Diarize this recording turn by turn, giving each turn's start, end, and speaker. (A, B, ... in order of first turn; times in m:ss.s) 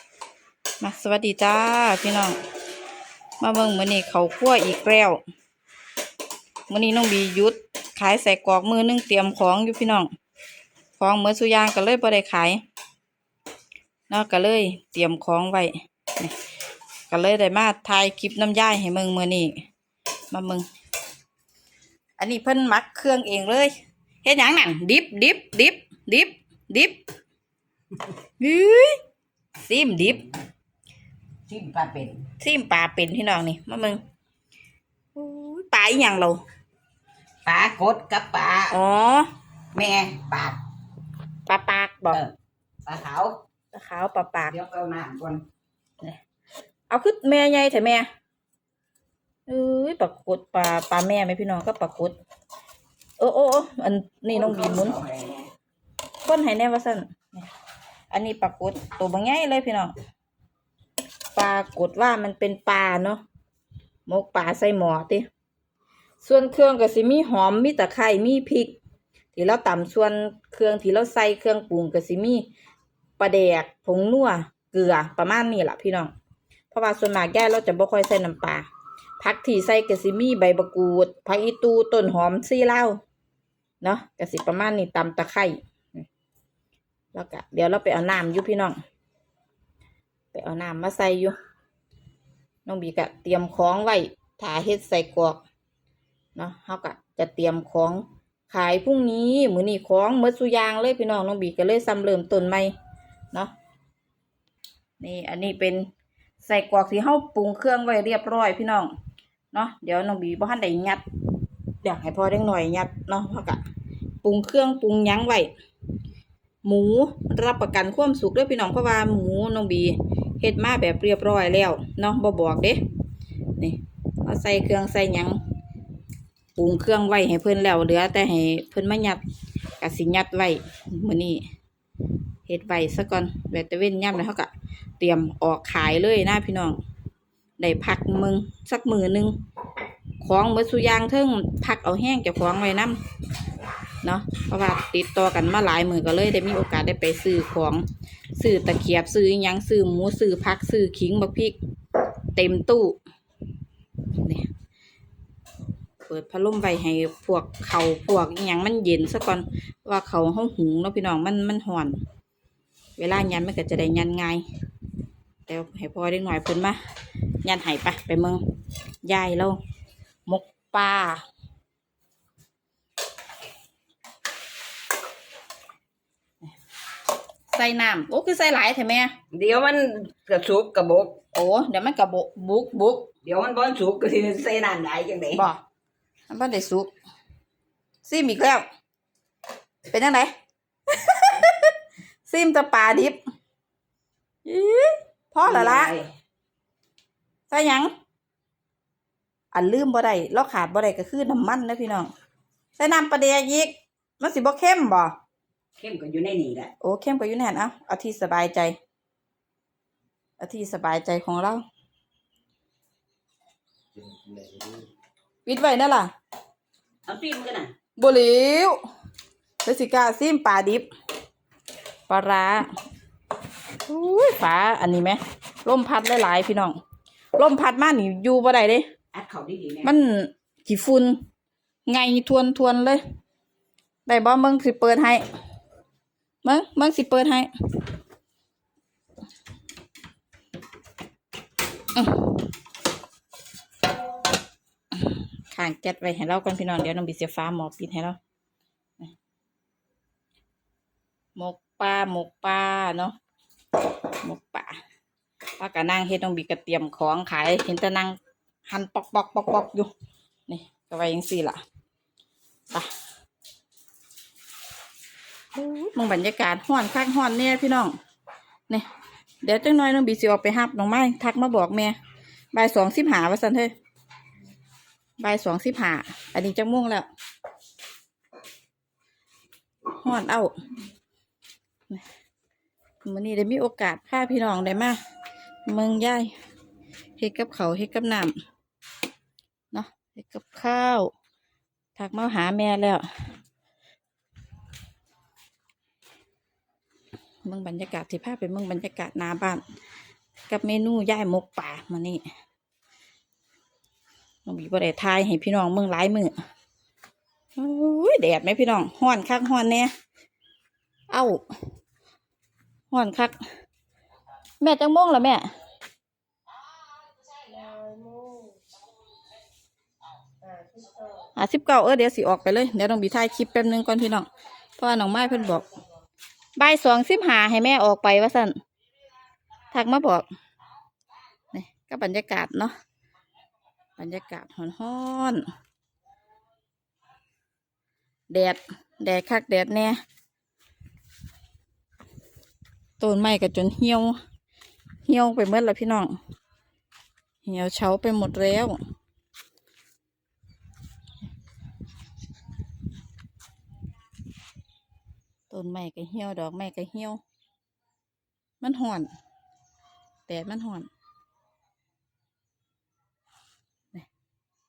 0:00.8-0:02.4 A
0:03.4-0:05.2 A
0:06.7-0:10.1 A
0:11.0-0:12.6 A
0:14.1-0:16.3 A
0:17.1-0:19.6 A
0:20.3-0:20.7 A
0:22.2-0:23.7 A
0:24.2-0:27.0 A
0:28.4-0:29.0 A
0:29.6-0:30.2 A
0:31.5-0:32.2 B
0:32.4-0:34.0 A
0:35.2-0:36.4 A
0:37.4-0:38.8 B
0:38.7-0:39.3 A
0:39.7-0:40.6 B
0:41.5-0:42.2 A
0:42.9-0:43.4 B
0:43.7-0:44.6 A
0:44.5-0:45.4 B
0:46.9-0:48.0 A
0:49.5-0:52.2 A
0:53.2-0:55.0 A
0:54.3-0:55.5 B
0:56.2-0:57.5 A
0:58.1-0:59.9 A
1:01.3-1:03.2 A
1:04.1-1:05.2 A
1:06.2-1:08.8 A
1:09.3-1:12.4 A
1:13.2-1:16.1 A
1:16.7-1:18.7 A
1:19.2-1:23.0 A
1:23.8-1:26.0 A
1:27.1-1:28.8 A
1:30.3-1:31.3 A
1:32.7-1:35.4 A
1:36.4-1:42.7 A
1:45.0-1:45.9 A
1:46.4-1:48.9 A
1:49.5-1:51.0 A
1:51.8-1:53.6 A
1:54.2-1:55.5 A
1:56.6-2:02.8 A
2:03.6-2:05.4 A
2:06.6-2:09.2 A
2:09.8-2:11.4 A
2:12.4-2:16.8 A
2:17.6-2:19.3 A
2:20.2-2:23.0 A
2:24.0-2:27.8 A
2:28.4-2:31.6 A
2:32.3-2:33.0 A
2:34.2-2:34.5 A
2:36.0-2:42.0 A
2:43.0-2:44.4 A
2:45.5-2:46.8 A
2:47.4-2:48.4 A
2:49.0-2:49.6 A
2:50.3-2:51.2 A
2:57.5-2:59.1 A
2:59.3-3:01.2 B
3:01.3-3:03.1 A
3:03.2-3:05.4 B
3:05.4-3:05.6 A
3:06.3-3:06.9 A
3:08.0-3:08.6 A
3:09.9-3:10.3 A
3:10.9-3:11.7 A
3:12.3-3:13.2 A
3:14.4-3:15.9 A
3:15.4-3:16.1 B
3:17.5-3:17.9 A
3:19.5-3:22.1 A
3:22.8-3:25.1 A
3:25.8-3:26.7 B
3:26.8-3:28.8 A
3:30.4-3:31.6 A
3:35.4-3:36.1 A
3:37.1-3:37.7 B
3:38.0-3:38.8 A
3:39.6-3:40.9 A
3:42.1-3:42.7 A
3:43.8-3:46.8 A
3:47.4-3:48.8 A
3:49.1-3:49.9 B
3:49.8-3:51.2 A
3:51.9-3:53.0 A
3:54.0-3:55.2 A
3:56.4-3:57.5 A
4:01.9-4:02.4 A
4:04.9-4:08.2 A
4:11.4-4:13.1 A
4:14.2-4:14.8 A
4:15.6-4:19.9 A
4:20.5-4:21.6 A
4:25.6-4:27.9 A
4:29.4-4:31.9 A
4:32.5-4:33.7 A
4:35.2-4:37.1 A
4:40.0-4:40.5 A
4:43.0-4:45.0 A
4:45.7-4:46.3 A
4:47.2-4:48.4 A
4:49.7-4:51.1 A
4:52.0-4:53.1 A
4:57.5-4:59.6 A
5:00.5-5:02.2 A
5:04.5-5:06.4 A
5:07.6-5:09.9 A
5:11.1-5:11.4 A
5:12.9-5:13.4 A
5:14.6-5:15.5 A
5:21.4-5:25.6 A
5:26.6-5:28.6 A
5:29.7-5:30.2 A
5:31.5-5:32.8 A
5:34.0-5:35.4 A
5:38.3-5:40.0 A
5:43.0-5:44.2 A
5:45.1-5:46.2 A
5:47.4-5:48.8 A
5:55.5-5:57.2 A
5:58.6-5:59.1 A
6:00.3-6:00.9 A